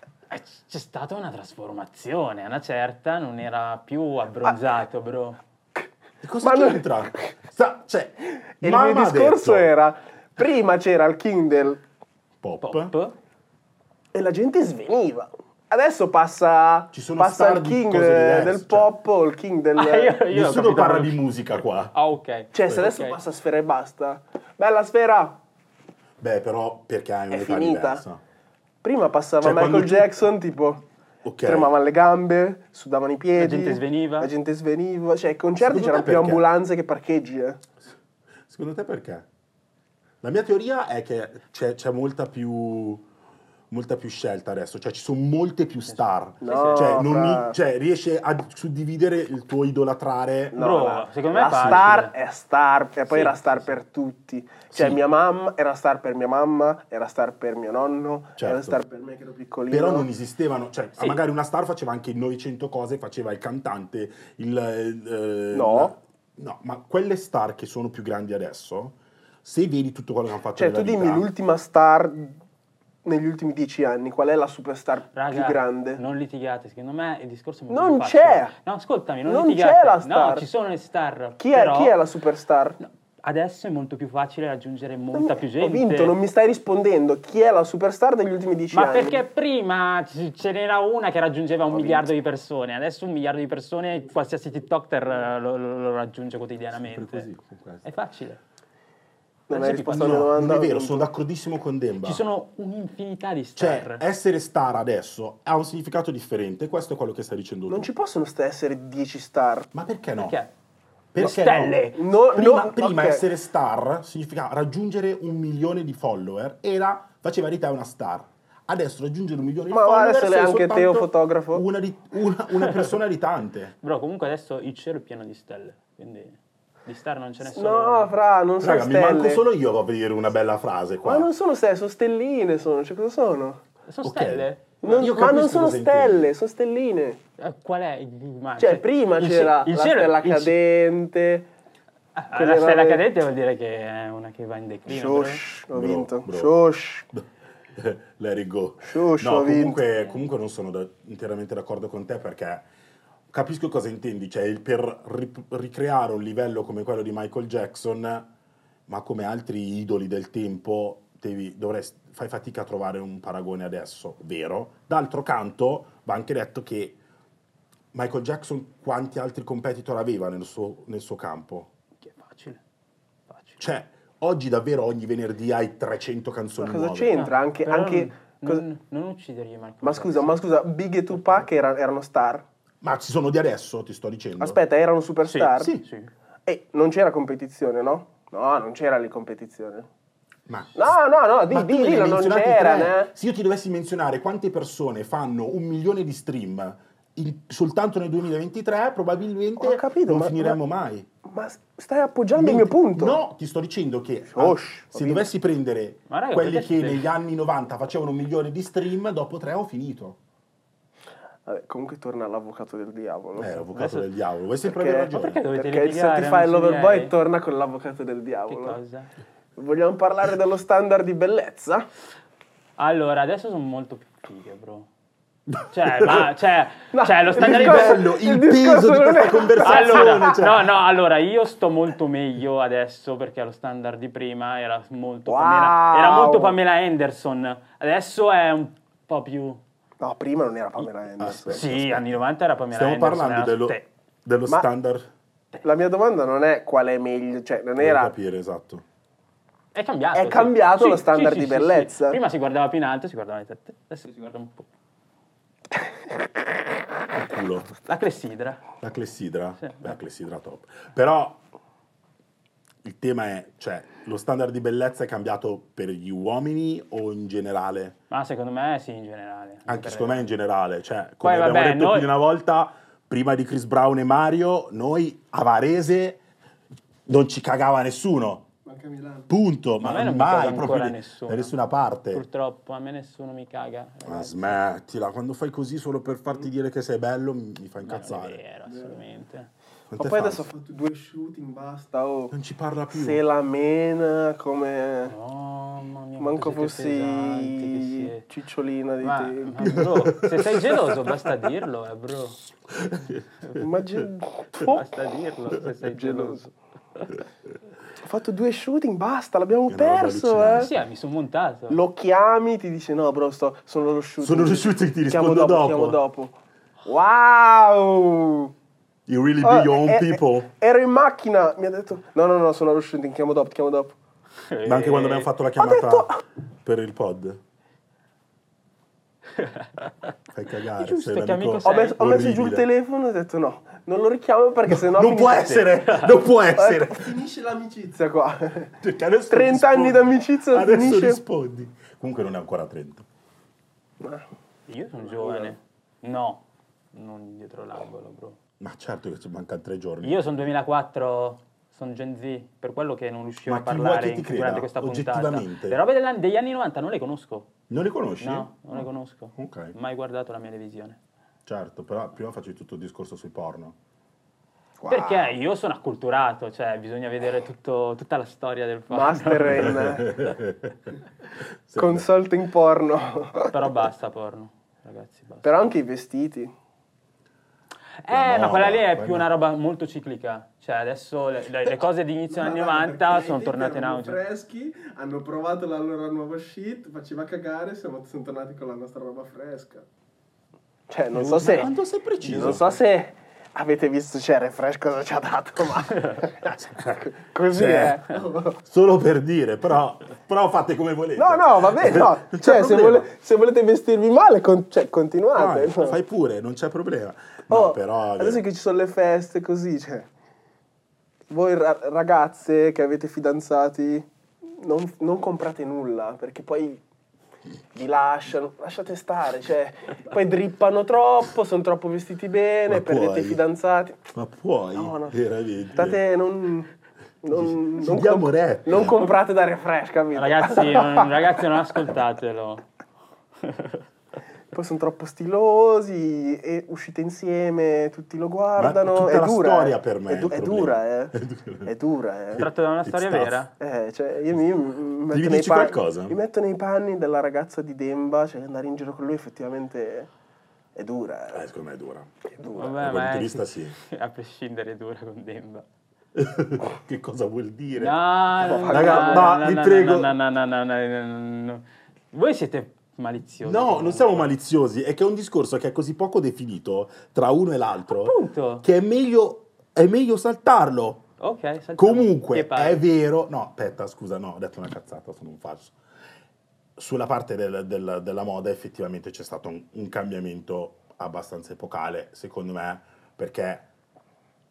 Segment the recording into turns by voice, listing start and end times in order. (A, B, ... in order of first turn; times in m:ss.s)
0:00.3-0:05.4 A
0:06.2-0:09.7 B
0:06.4-0:07.3 C
0:08.6-0:11.8 C
0:12.4-0:12.9 B
0:12.6-0:13.2 A
0:14.1-0:20.2 C
0:16.9-0:18.9 B
0:19.8-0:21.2 A
0:20.3-0:21.9 B
0:21.9-0:23.2 A
0:22.5-0:25.4 C
0:26.2-0:28.2 B
0:27.3-0:28.0 C
0:28.8-0:30.8 C
0:29.4-0:30.1 B
0:31.2-0:31.7 B
0:31.4-0:37.6 C
0:33.4-0:34.3 A
0:35.6-0:36.5 B
0:38.5-0:39.3 B
0:40.2-0:43.0 B
0:43.7-0:50.6 B
0:45.9-0:47.0 A
0:46.4-0:47.6 C
0:50.5-1:00.1 C
0:50.5-0:52.1 A
0:51.5-0:51.9 B
0:53.1-0:53.7 A
0:54.7-0:55.0 B
0:58.4-0:58.8 B
0:59.7-1:11.3 B
1:05.5-1:05.9 C
1:10.6-1:12.4 C
1:13.0-1:16.0 C
1:15.1-1:22.0 A
1:17.7-1:18.5 C
1:19.2-1:20.4 C
1:21.4-1:22.8 C
1:22.8-1:26.1 A
1:25.1-1:29.2 C
1:28.7-1:37.3 A
1:31.7-1:32.1 C
1:36.7-1:37.8 B
1:37.8-1:38.4 A
1:39.5-1:41.1 C
1:39.5-1:40.3 A
1:39.9-1:42.2 B
1:42.0-1:44.0 A
1:43.6-1:47.9 B
1:47.7-1:49.7 C
1:49.7-1:50.4 B
1:50.2-1:50.5 A
1:51.1-2:03.7 B
1:51.2-1:52.0 A
1:51.9-1:53.3 C
1:59.7-2:01.6 C
2:02.6-2:02.9 A
2:03.8-2:08.1 A
2:07.4-2:09.4 C
2:08.6-2:11.3 B
2:11.0-2:13.6 C
2:13.9-2:15.0 A
2:14.0-2:16.3 B
2:14.8-2:17.2 C
2:17.4-2:20.5 A
2:18.6-2:21.5 C
2:22.2-2:25.4 A
2:22.3-2:23.0 C
2:24.9-2:27.1 C
2:25.7-2:26.5 B
2:27.1-2:32.7 B
2:28.8-2:29.8 C
2:33.3-2:38.3 B
2:38.9-2:47.0 B
2:47.9-2:51.7 B
2:52.0-2:52.6 A
2:53.3-2:53.6 A
2:53.6-2:57.2 B
2:56.6-2:58.6 C
2:57.1-3:00.4 A
2:59.8-3:02.4 C
3:01.1-3:01.4 A
3:02.8-3:04.6 B
3:04.4-3:05.7 C
3:05.2-3:06.1 A
3:05.6-3:05.8 B
3:06.4-3:09.9 C
3:10.5-3:10.9 B
3:10.7-3:13.1 C
3:11.5-3:21.1 B
3:19.6-3:20.6 C
3:21.2-3:23.2 C
3:22.3-3:30.2 B
3:24.3-3:25.3 C
3:26.1-3:27.1 A
3:31.4-3:33.6 C
3:33.4-3:35.4 B
3:33.7-3:34.1 A
3:34.6-3:38.8 C
3:35.1-3:37.1 A
3:38.5-3:39.1 A
3:39.6-3:41.8 C
3:42.8-3:44.9 A
3:45.5-3:46.3 B
3:45.7-3:48.0 A
3:46.9-3:50.4 C
3:47.3-3:50.7 B
3:49.6-3:59.6 A
3:55.3-3:56.6 C
4:00.0-4:01.6 C
4:01.2-4:02.2 B
4:01.5-4:03.8 A
4:02.7-4:05.1 B
4:05.6-4:08.1 C
4:07.8-4:08.8 B
4:09.7-4:14.7 A
4:10.1-4:12.2 C
4:17.1-4:17.7 B
4:17.8-4:18.6 A
4:18.8-4:21.4 B
4:19.6-4:19.9 A
4:22.8-4:28.0 B
4:28.1-4:30.3 A
4:29.7-4:36.2 B
4:31.2-4:32.1 A
4:37.1-4:38.5 B
4:38.6-4:39.3 C
4:39.3-4:42.2 B
4:39.8-4:41.5 A
4:42.1-4:44.6 A
4:44.0-4:48.4 B
4:47.8-4:49.5 A
4:48.7-4:49.0 C
4:49.9-4:50.5 B
4:49.9-4:52.3 C
4:52.3-4:53.2 B
4:52.9-4:55.1 C
4:55.1-4:58.2 A
4:56.2-4:59.8 C
4:59.0-5:02.4 A
4:59.6-5:01.0 B
5:02.7-5:03.6 B
5:03.5-5:04.8 C
5:04.6-5:06.5 A
5:05.8-5:06.5 C
5:08.0-5:10.7 C
5:09.7-5:10.7 B
5:10.5-5:11.8 A
5:11.7-5:18.5 C
5:14.2-5:16.0 B
5:19.1-5:20.5 B
5:19.4-5:24.0 C
5:24.5-5:25.3 A
5:24.6-5:26.1 B
5:25.6-5:26.2 C
5:26.6-5:27.4 B
5:29.4-5:29.9 A
5:30.3-5:32.6 B
5:30.8-5:32.0 A
5:31.6-5:35.7 C
5:34.7-5:37.2 B
5:35.7-5:36.1 A
5:36.5-5:38.8 C
5:38.8-5:43.0 B
5:39.3-5:41.2 C
5:44.0-5:44.2 C
5:44.7-5:48.4 A
5:45.1-5:45.5 C
5:48.6-5:50.3 B
5:50.0-5:57.5 A
5:53.4-5:55.8 B
5:57.7-5:58.8 B
5:58.2-6:01.0 A
5:59.4-5:59.7 B
6:01.4-6:03.8 B
6:04.8-6:05.3 C
6:04.9-6:09.8 A
6:08.9-6:10.2 C
6:09.6-6:10.9 B
6:11.7-6:12.1 B
6:11.8-6:13.5 C
6:13.5-6:15.5 A
6:15.4-6:16.5 C
6:18.0-6:24.2 A
6:18.1-6:19.3 B
6:22.3-6:29.8 C
6:30.9-6:31.7 C
6:31.1-6:31.7 A
6:31.5-6:32.6 B
6:32.2-6:38.6 C
6:36.4-6:38.0 B
6:38.6-6:43.1 B
6:41.2-6:46.0 C
6:45.3-6:48.4 B
6:47.5-6:50.1 C
6:51.3-6:56.8 C
6:57.7-7:04.0 C
7:02.7-7:03.4 B
7:04.1-7:06.0 B
7:04.7-7:05.2 C
7:05.7-7:06.7 C
7:07.2-7:11.1 C
7:07.3-7:09.0 B
7:10.1-7:12.6 A
7:13.4-7:13.8 A
7:14.5-7:22.4 C
7:18.6-7:21.7 B
7:22.3-7:23.4 B
7:22.4-7:23.5 A
7:23.6-7:30.1 C
7:25.1-7:26.2 B
7:30.8-7:31.4 C
7:31.3-7:32.1 B
7:32.4-7:32.8 C
7:32.5-7:35.6 A
7:32.7-7:33.8 B
7:36.1-7:40.1 B
7:37.7-7:44.3 A
7:38.4-7:39.3 C
7:43.4-7:51.1 B
7:47.9-7:48.6 A
7:51.2-7:52.8 A
7:51.8-7:55.8 B
7:56.8-8:03.6 B